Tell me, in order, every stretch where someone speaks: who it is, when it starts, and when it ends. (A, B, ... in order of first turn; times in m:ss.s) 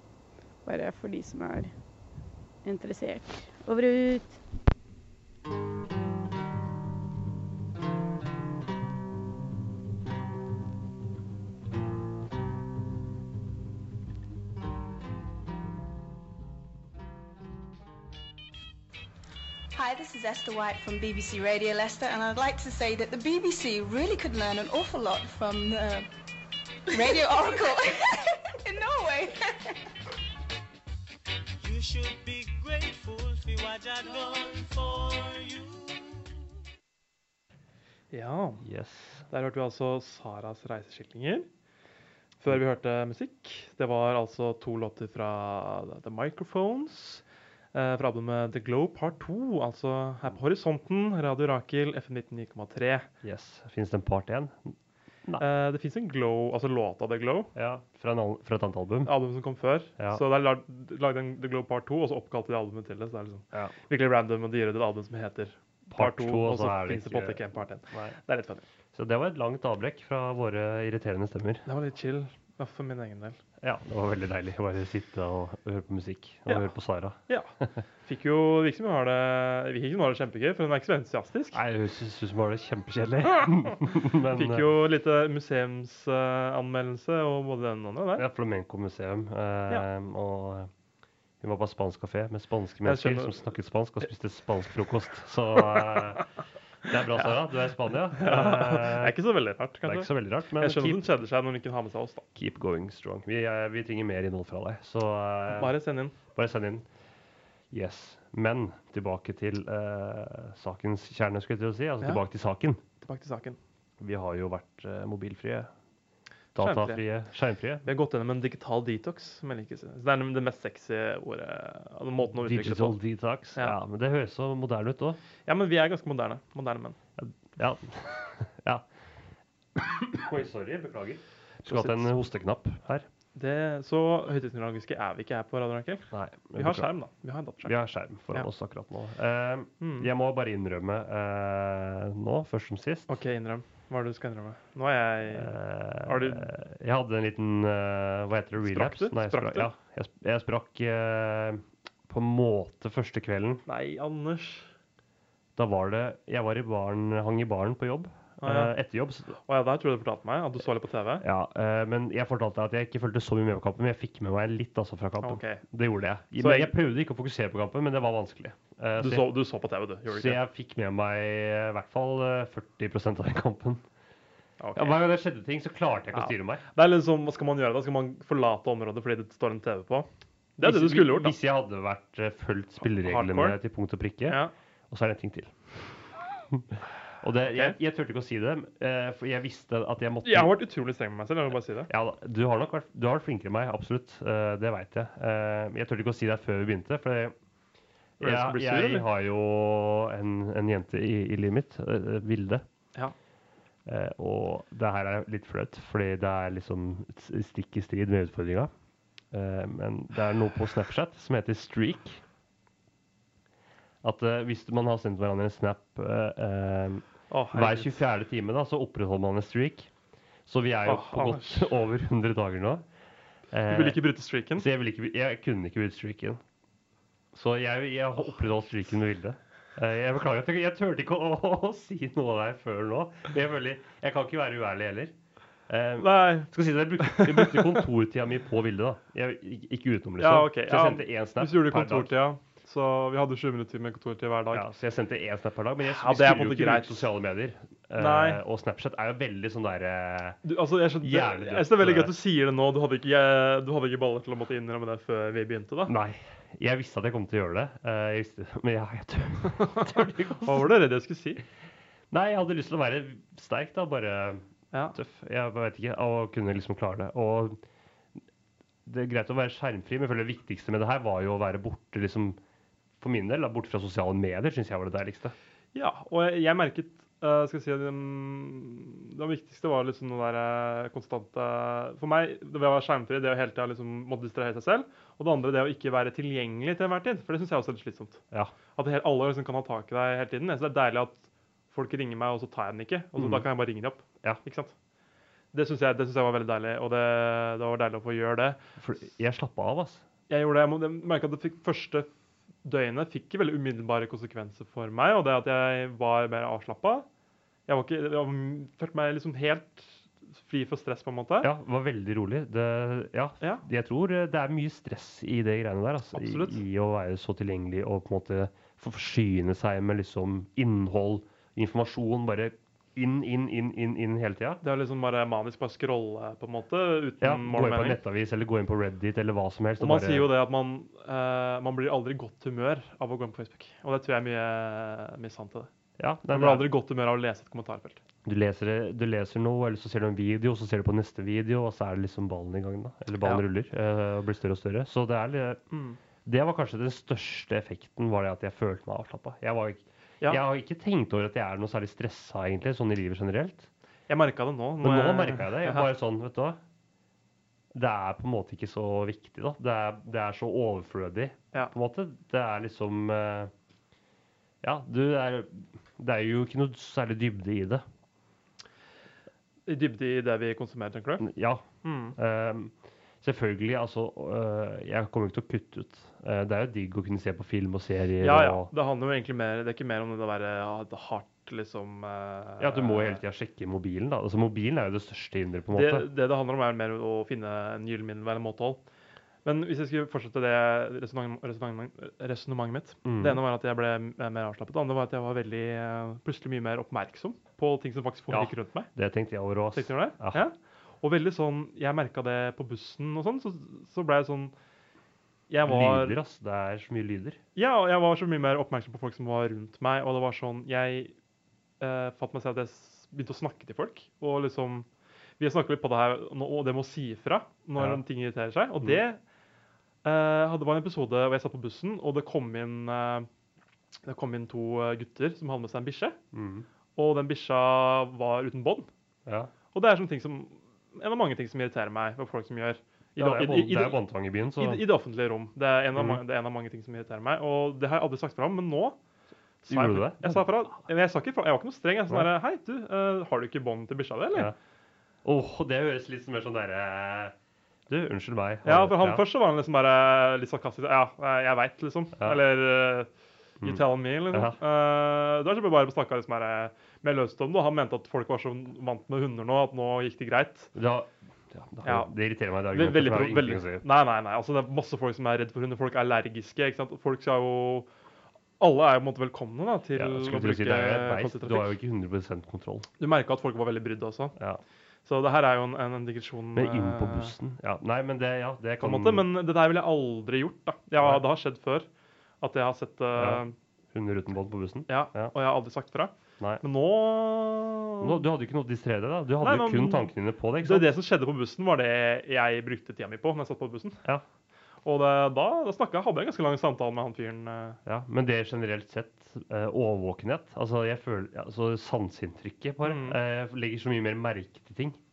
0:00.6-0:01.7 A
0:02.6-0:04.4 A
0:19.7-0:26.1 B
0:26.9-0:29.8 B
0:31.6-0:36.3 C
0:38.1-0:38.6 D
0:38.6-0:39.2 E
0:39.3-0:41.5 D
0:42.4-0:47.2 D
0:47.7-0:53.1 D
0:53.2-0:55.4 E
0:55.4-0:57.5 D
0:57.5-0:59.1 E
0:59.0-1:08.6 D
1:05.9-1:08.2 E
1:08.9-1:11.6 E
1:11.6-1:13.4 D
1:13.6-1:17.8 E
1:18.0-1:21.6 D
1:21.5-1:24.6 E
1:24.3-1:28.2 D
1:28.2-1:30.7 E
1:31.4-1:36.3 E
1:32.8-1:33.4 D
1:36.9-1:39.2 E
1:38.2-1:42.2 D
1:39.8-1:41.0 E
1:42.3-1:45.7 E
1:45.5-1:46.1 D
1:46.3-1:46.8 E
1:47.7-1:52.8 E
1:53.0-1:53.6 D
1:54.0-1:55.7 E
1:56.5-1:57.8 E
1:56.6-1:57.0 D
1:57.8-2:03.0 D
2:02.3-2:05.2 E
2:05.5-2:07.0 D
2:07.2-2:08.8 E
2:09.8-2:13.0 E
2:11.6-2:12.1 D
2:13.4-2:17.7 D
2:16.1-2:16.9 E
2:17.6-2:23.2 E
2:19.8-2:20.1 D
2:23.1-2:26.5 D
2:25.3-2:33.6 E
2:28.6-2:29.7 D
2:33.7-2:34.7 D
2:35.6-2:39.4 E
2:38.4-2:38.7 D
2:39.4-2:41.2 D
2:41.2-2:49.3 E
2:45.2-2:45.6 D
2:46.3-2:46.7 D
2:49.0-2:50.4 D
2:50.1-2:53.8 E
2:54.6-2:55.0 D
2:54.7-2:56.6 E
2:56.1-3:01.3 D
3:00.6-3:10.5 E
3:03.0-3:03.6 D
3:04.3-3:04.5 D
3:07.5-3:07.7 D
3:10.2-3:11.9 D
3:11.9-3:17.3 E
3:18.2-3:19.0 D
3:18.2-3:22.6 E
3:23.8-3:28.7 E
3:29.3-3:32.2 E
3:34.0-3:39.9 E
3:37.3-3:38.0 D
3:40.4-3:42.8 E
3:40.8-3:41.7 D
3:43.5-3:44.0 E
3:43.7-3:44.6 D
3:44.5-3:46.4 E
3:47.3-3:55.1 E
3:55.7-4:02.1 E
3:56.0-3:56.5 D
3:57.0-3:57.6 D
4:00.2-4:04.6 D
4:04.5-4:10.4 E
4:05.8-4:07.0 D
4:08.0-4:08.4 D
4:10.4-4:15.9 D
4:11.0-4:12.1 E
4:15.9-4:20.6 E
4:19.7-4:21.4 D
4:22.1-4:27.6 E
4:28.8-4:32.4 E
4:33.0-4:35.3 E
4:35.7-4:48.2 D
4:48.8-4:54.7 D
4:53.2-4:53.4 E
4:55.5-4:58.6 D
4:58.8-5:00.0 E
5:00.3-5:02.1 D
5:02.6-5:07.0 D
5:07.7-5:11.5 D
5:11.4-5:24.6 E
5:16.1-5:16.6 D
5:24.6-5:28.0 D
5:27.2-5:30.3 E
5:29.8-5:35.7 D
5:36.0-5:36.7 E
5:36.3-5:38.0 D
5:38.2-5:45.6 E
5:45.7-5:46.0 D
5:46.2-5:53.7 E
5:54.1-5:55.9 D
5:54.8-5:56.6 E
5:57.7-6:03.5 E
6:04.6-6:07.8 E
6:09.7-6:11.2 D
6:11.2-6:18.7 E
6:11.8-6:12.2 D
6:18.2-6:23.2 D
6:22.6-6:26.1 E
6:25.7-6:28.8 D
6:29.4-6:38.9 D
6:33.0-6:33.4 E
6:38.3-6:40.4 E
6:39.7-6:44.5 D
6:45.5-6:46.2 D
6:45.6-6:47.4 E
6:47.6-6:51.1 D
6:51.8-6:54.9 D
6:55.4-6:59.2 D
6:57.8-6:58.0 E
7:00.0-7:03.3 D
7:04.0-7:06.2 D
7:06.3-7:06.7 E
7:07.0-7:08.9 D
7:09.2-7:09.5 E
7:09.7-7:14.0 D
7:13.2-7:14.8 E
7:14.6-7:19.0 D
7:15.9-7:16.2 E
7:19.6-7:24.5 D
7:19.7-7:20.4 E
7:25.2-7:27.3 E
7:27.9-7:29.2 E
7:28.6-7:33.1 D
7:33.6-7:34.6 E
7:33.6-7:40.7 D
7:40.7-7:43.8 E
7:41.8-7:42.1 D
7:42.7-7:47.9 D
7:48.6-7:51.7 D
7:49.9-7:52.9 E
7:53.0-7:54.4 D
7:54.4-7:54.6 E
7:55.0-7:57.3 D
7:56.5-7:59.2 E
7:58.8-8:01.9 D
8:01.0-8:01.2 E
8:02.4-8:03.5 D
8:03.1-8:05.3 E
8:04.9-8:08.2 D
8:08.0-8:10.9 E
8:09.4-8:10.1 D
8:10.6-8:14.0 D
8:14.8-8:17.8 D
8:17.8-8:25.0 E
8:22.8-8:23.2 D